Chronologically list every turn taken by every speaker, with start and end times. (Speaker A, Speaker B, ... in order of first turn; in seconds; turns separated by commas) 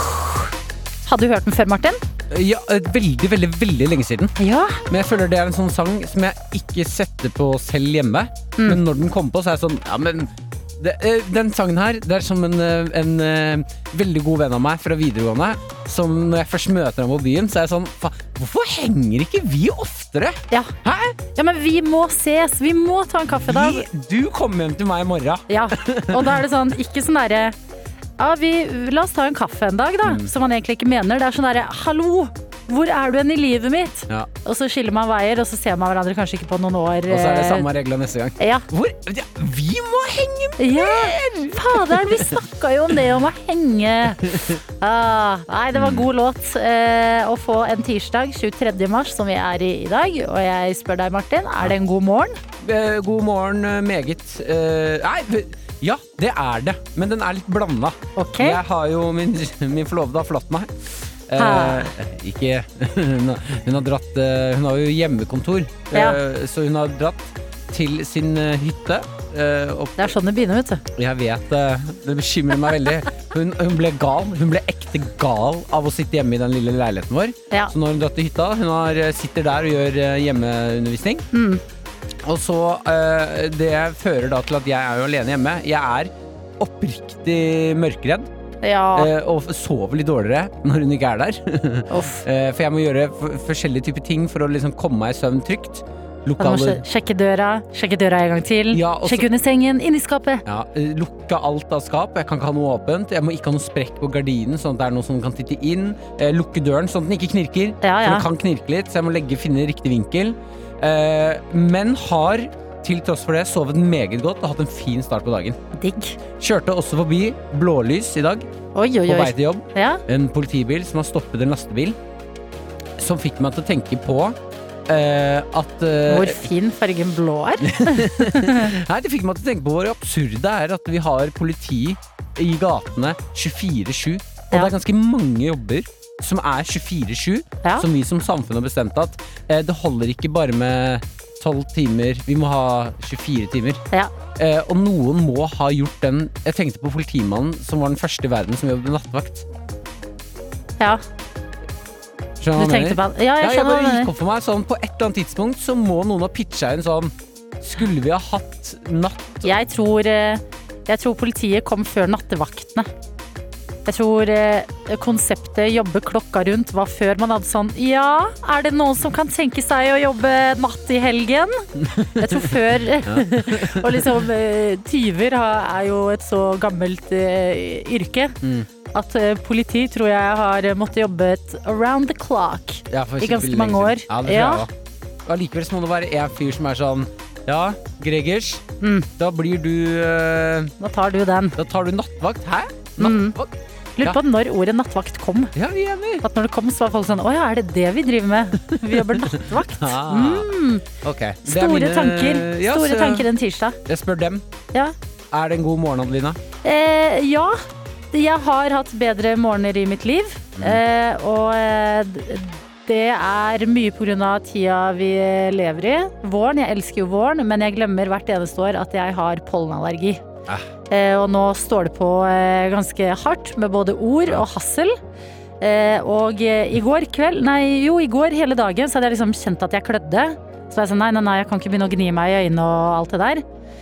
Speaker A: 1.1-2.0, Speaker B: 2.3-21.2, Speaker A: 4.4-4.8, Speaker A: 21.4-23.9, Speaker B: 23.3-26.4, Speaker A: 25.5-27.6, Speaker A: 28.2-37.7, Speaker B: 30.0-30.3, Speaker B: 37.1-42.4, Speaker A: 38.4-38.7, Speaker A: 40.6-52.4, Speaker B: 44.2-44.6, Speaker B: 45.7-46.1, Speaker B: 52.6-70.0, Speaker A: 58.2-58.6, Speaker A: 61.4-61.9, Speaker A: 65.9-66.2, Speaker A: 70.0-70.8, Speaker B: 71.0-81.3, Speaker A: 81.3-81.6, Speaker B: 82.2-88.3, Speaker A: 88.6-89.1, Speaker B: 88.9-96.8, Speaker A: 91.9-92.2, Speaker A: 96.4-100.4, Speaker B: 98.7-99.3, Speaker B: 100.5-115.6, Speaker A: 107.8-108.3, Speaker A: 115.8-116.2, Speaker B: 116.4-118.5, Speaker A: 118.8-120.0, Speaker B: 119.1-122.0, Speaker B: 123.0-124.4, Speaker B: 124.9-126.5, Speaker A: 126.1-128.7, Speaker B: 127.6-143.8, Speaker B: 144.4-149.5, Speaker B: 152.4-159.5, Speaker A: 152.6-154.1, Speaker A: 159.4-162.9, Speaker A: 163.9-178.4, Speaker B: 171.8-174.2, Speaker B: 178.4-178.7, Speaker A: 178.9-184.7, Speaker B: 182.9-184.7, Speaker B: 185.3-188.7, Speaker A: 188.8-189.1, Speaker B: 189.2-190.7, Speaker A: 190.8-191.6, Speaker B: 191.6-194.2, Speaker A: 193.0-193.4, Speaker A: 194.0-195.5, Speaker B: 195.6-196.2, Speaker A: 196.2-200.8, Speaker B: 198.7-203.3, Speaker A: 201.4-203.8, Speaker B: 203.8-204.4, Speaker B: 205.3-206.4, Speaker A: 206.6-207.6, Speaker A: 208.1-220.2, Speaker B: 210.6-210.8, Speaker A: 220.9-225.0, Speaker A: 225.6-233.4